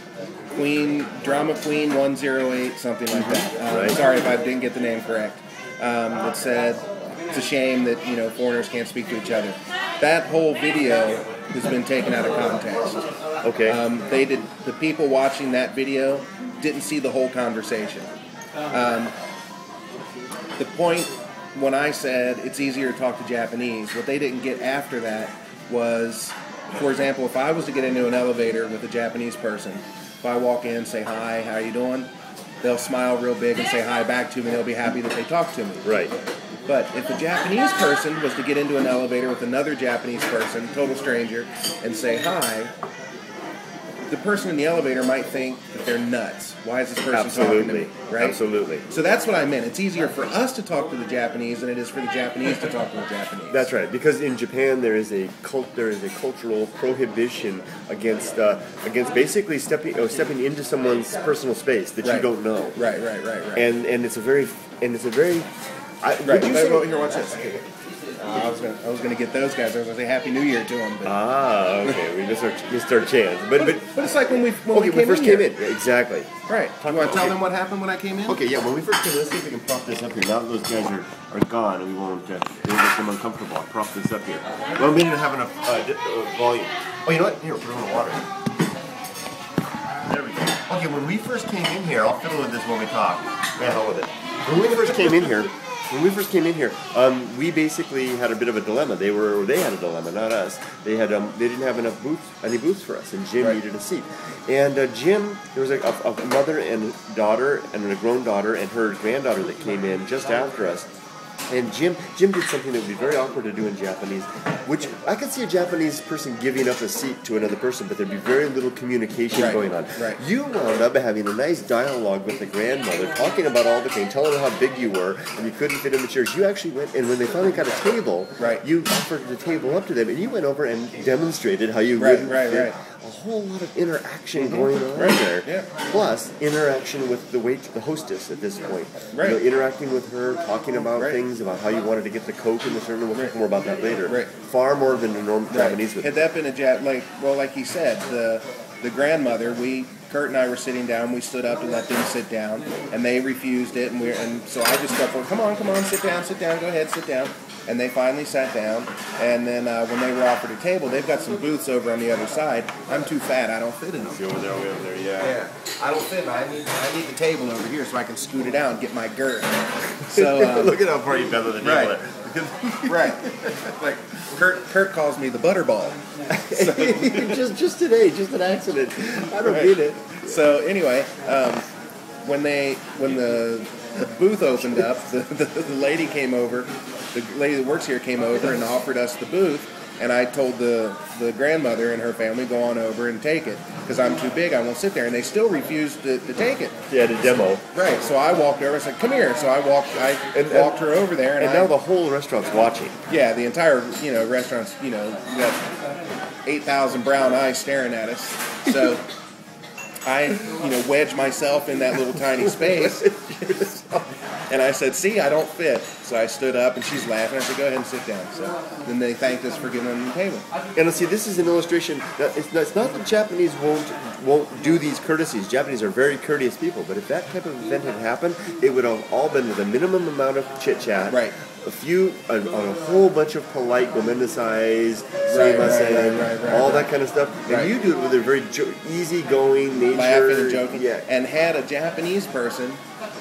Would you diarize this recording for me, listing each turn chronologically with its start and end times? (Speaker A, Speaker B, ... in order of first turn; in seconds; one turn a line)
Speaker A: 0.5-13.1
Speaker B: 3.1-4.0
Speaker B: 13.4-13.8
Speaker A: 13.6-18.1
Speaker A: 18.7-19.1
Speaker A: 20.6-32.1
Speaker A: 32.6-35.9
Speaker B: 35.8-36.1
Speaker A: 36.7-42.7
Speaker A: 44.1-53.7
Speaker B: 47.1-48.9
Speaker B: 53.5-62.8
Speaker A: 62.0-63.7
Speaker B: 63.5-65.5
Speaker B: 66.0-67.6
Speaker A: 66.2-67.6
Speaker A: 68.2-71.2
Speaker B: 71.0-77.4
Speaker A: 73.6-75.5
Speaker A: 76.5-78.4
Speaker B: 78.3-88.3
Speaker B: 90.0-110.9
Speaker B: 111.5-146.2
Speaker A: 119.3-120.2
Speaker A: 132.0-132.8
Speaker A: 134.4-135.7
Speaker A: 139.1-139.4
Speaker A: 140.7-141.2
Speaker A: 144.1-144.3
Speaker A: 145.5-164.2
Speaker B: 164.1-165.4
Speaker A: 165.2-170.8
Speaker B: 170.1-173.7
Speaker A: 171.6-172.0
Speaker A: 172.9-177.5
Speaker B: 176.3-180.4
Speaker A: 179.4-181.7
Speaker A: 182.2-201.7
Speaker B: 196.9-197.7
Speaker B: 200.3-200.7
Speaker B: 201.4-203.0
Speaker A: 203.1-205.7
Speaker A: 206.5-209.1
Speaker A: 210.1-213.9
Speaker B: 212.3-214.1
Speaker A: 214.5-220.5
Speaker B: 220.8-241.1
Speaker A: 231.1-231.3
Speaker A: 235.3-236.9
Speaker A: 237.5-237.7
Speaker A: 239.9-242.8